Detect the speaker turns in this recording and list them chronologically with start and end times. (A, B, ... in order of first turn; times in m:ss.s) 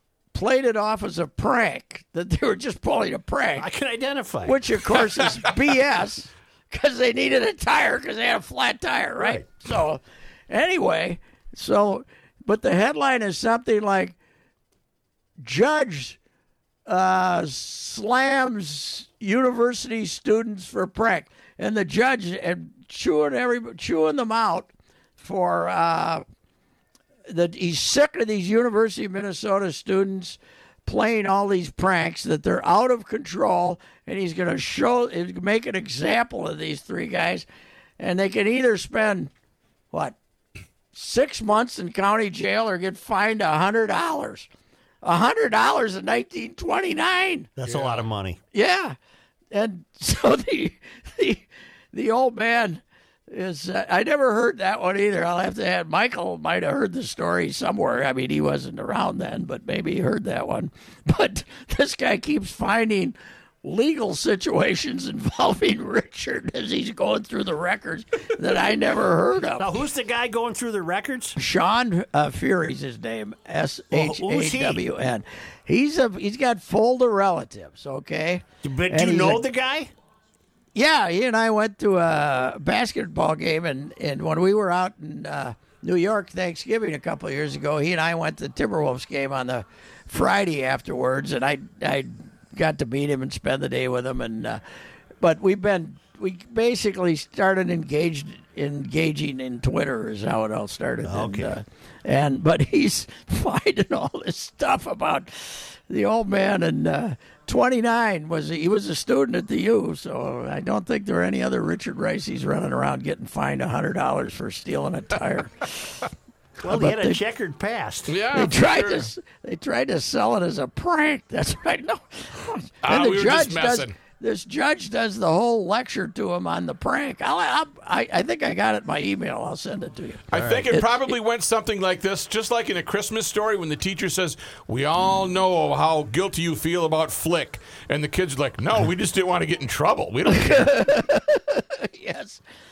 0:00.3-0:03.7 A
0:03.6-0:04.6 B
0:04.4-0:14.2 A
0:15.4-0:16.2 A
0:16.8-0:26.2 A
0:27.3-0:37.4 A
0:38.0-0:39.3 A
0:40.9-0:44.5 A
0:45.0-0:47.9 A
0:47.6-0:48.4 B
0:48.5-0:49.0 A
0:49.5-1:09.8 A
1:09.6-1:11.4 B
1:11.3-1:19.4 A
1:13.9-1:14.8 B
1:18.6-1:19.9 B
1:20.7-1:34.6 A
1:35.2-1:56.0 A
1:41.0-1:41.5 B
1:56.6-1:58.2 B
1:56.6-1:57.2 A
1:58.1-1:59.1 C
1:58.3-2:11.1 A
2:02.8-2:03.9 C
2:10.3-2:20.8 C
2:10.3-2:10.7 B
2:20.3-2:22.4 A